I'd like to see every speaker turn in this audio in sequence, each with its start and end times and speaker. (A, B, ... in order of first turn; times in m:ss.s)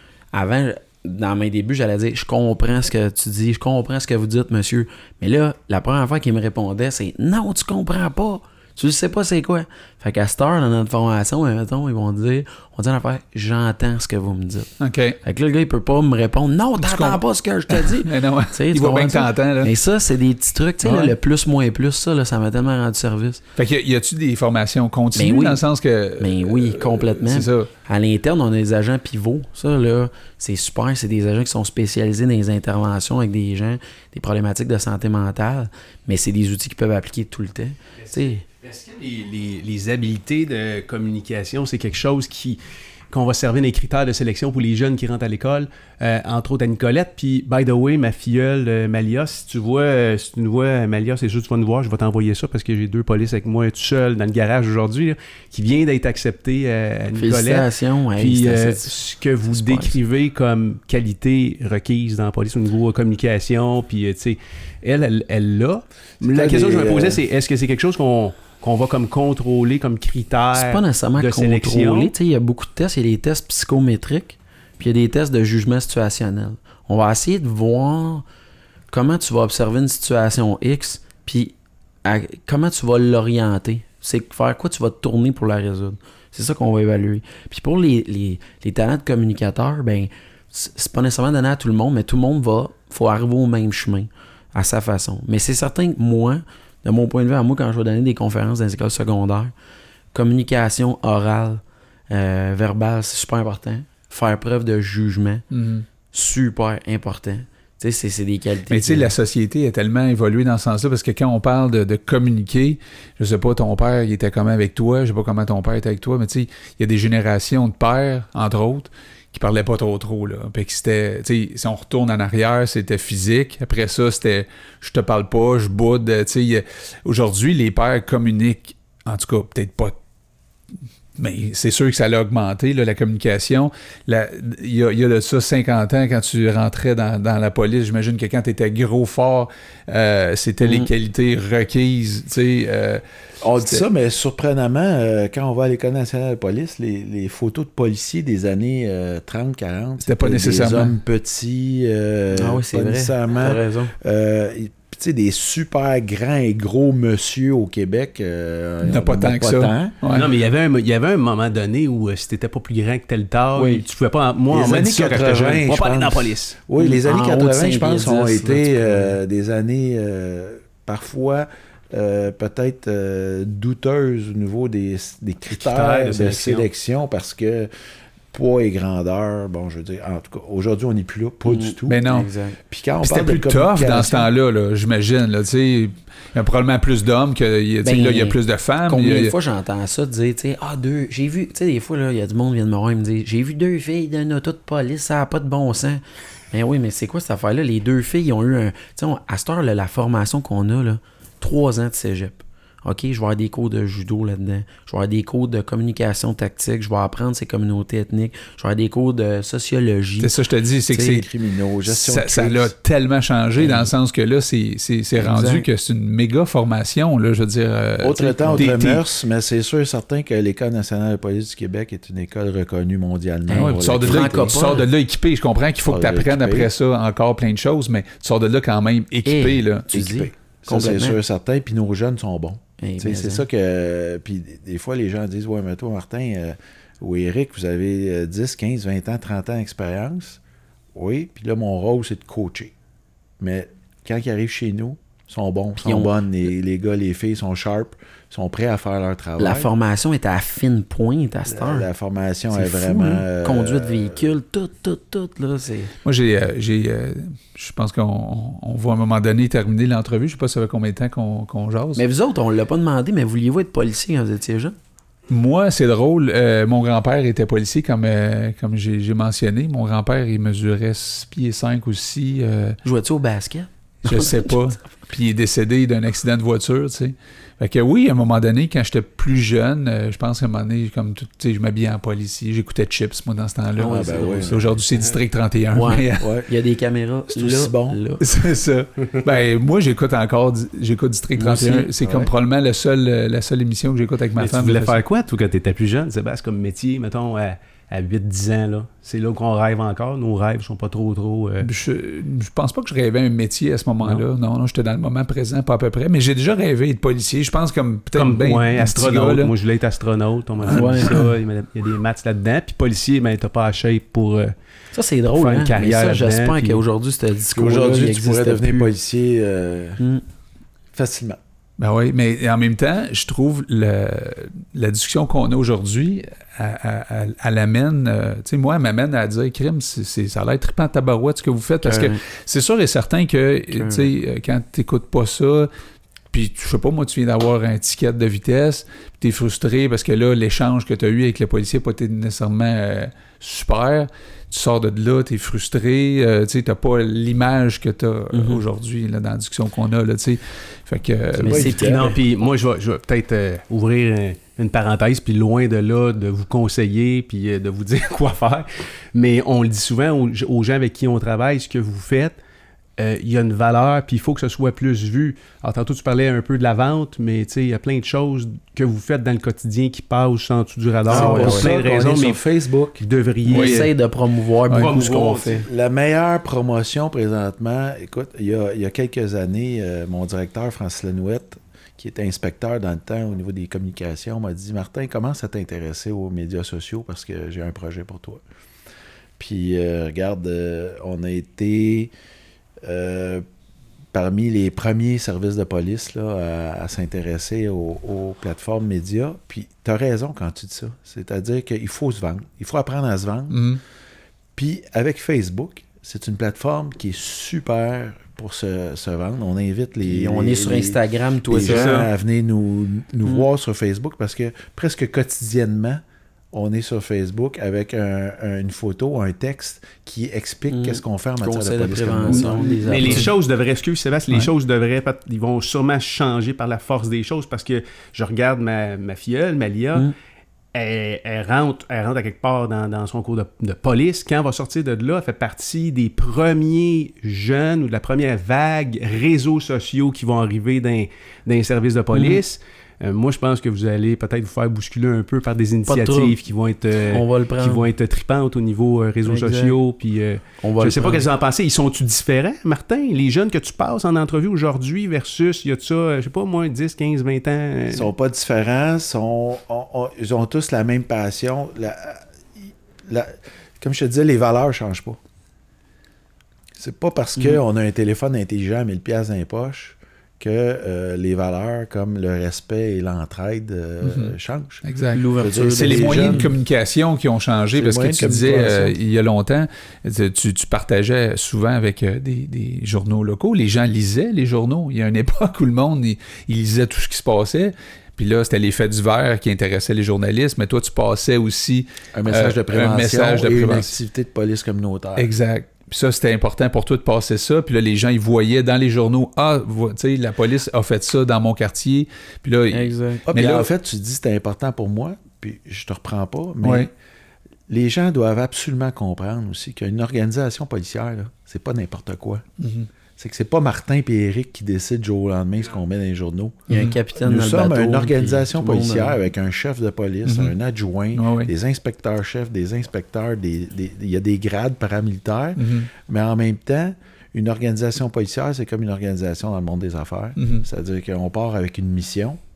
0:00.3-0:14.7 A
0:14.8-0:15.2 B
0:15.2-0:23.4 A
0:16.8-0:19.7 B
0:20.8-0:21.1 B
0:23.6-0:27.7 B
0:25.1-0:25.6 A
0:26.2-0:38.4 A
0:38.0-1:12.1 C
0:57.1-0:58.9 A
0:59.5-0:59.9 A
1:06.2-1:07.2 D
1:10.5-1:18.2 A
1:18.9-1:39.5 A
1:40.1-1:45.4 A
1:45.5-1:45.8 B
1:46.1-1:49.1 A
1:48.7-2:10.0 B
2:11.2-2:23.0 B
2:20.6-2:20.9 A
2:23.4-2:40.0 D
2:23.6-2:23.8 B
2:30.0-2:31.0 B
2:32.3-2:33.9 A
2:38.8-2:40.3 B
2:40.1-2:46.6 C
2:43.6-2:43.8 A
2:44.5-2:57.7 D
2:46.8-2:49.1 A
2:55.5-2:56.7 C
2:58.3-3:02.0 D
3:01.4-3:02.6 A
3:01.9-3:02.3 B
3:02.7-3:04.3 D
3:03.0-3:09.3 B
3:07.8-3:30.3 A
3:30.2-3:31.3 B
3:30.9-3:32.7 D
3:31.8-3:39.0 B
3:33.6-3:33.9 A
3:35.1-3:35.6 A
3:38.0-3:44.6 D
3:43.5-3:44.9 A
3:43.5-3:49.9 B
3:45.8-3:46.7 D
3:49.2-3:51.2 A
3:49.9-4:00.4 D
3:52.8-3:53.4 A
4:00.9-4:02.7 D
4:03.4-4:09.7 D
4:05.8-4:06.1 A
4:09.4-4:11.9 A
4:11.5-4:14.3 D
4:12.5-4:15.9 A
4:16.0-4:22.0 B
4:22.0-4:24.8 A
4:25.3-4:32.8 B
4:32.8-4:34.6 A
4:34.0-4:46.3 B
4:43.8-4:44.6 A
4:43.8-4:44.8 D
4:45.7-4:48.2 A
4:46.2-4:46.5 D
4:47.3-4:48.0 D
4:48.2-4:55.0 B
4:51.4-4:51.9 A
4:52.0-4:52.3 D
4:54.4-5:01.7 C
5:01.6-5:09.5 B
5:08.1-5:14.5 C
5:10.7-5:11.2 A
5:10.7-5:11.3 B
5:14.9-5:18.9 A
5:15.3-5:16.8 C
5:17.5-5:20.0 D
5:20.9-5:21.4 D
5:21.8-5:35.7 B
5:31.8-5:32.2 A
5:33.7-5:34.1 A
5:36.3-5:51.7 B
5:48.3-5:48.6 A
5:51.4-5:52.1 D
5:51.4-5:52.2 A
5:51.5-6:02.4 C
6:03.0-6:12.4 C
6:11.1-6:13.0 D
6:11.1-6:11.7 A
6:13.0-6:13.9 C
6:13.4-6:15.7 A
6:13.5-6:13.8 B
6:14.7-6:15.7 C
6:15.7-6:28.4 D
6:29.4-6:32.1 D
6:32.8-6:33.4 D
6:34.1-6:43.6 D
6:43.5-6:43.8 B
6:44.6-7:03.3 D
6:50.0-6:52.0 A
6:51.7-6:52.1 C
7:00.7-7:03.3 A
7:02.3-7:10.1 C
7:10.7-7:38.1 C
7:22.1-7:22.4 A
7:25.9-7:26.4 A
7:27.1-7:27.8 A
7:29.2-7:29.8 A
7:30.6-7:31.2 A
7:37.9-7:45.2 D
7:46.8-7:54.8 D
7:54.0-8:13.9 B
7:55.1-7:56.5 A
7:55.4-7:56.5 D
7:57.8-7:58.9 D
8:12.1-8:15.3 D
8:15.2-8:23.7 B
8:22.7-8:23.3 A
8:23.3-8:26.9 D
8:26.6-8:26.9 B
8:27.7-8:32.4 D
8:32.6-8:32.9 B
8:33.2-8:52.4 D
8:36.7-8:39.2 A
8:36.7-8:37.0 B
8:40.2-8:40.5 B
8:41.1-8:41.5 B
8:45.6-8:45.9 B
8:50.4-8:50.6 B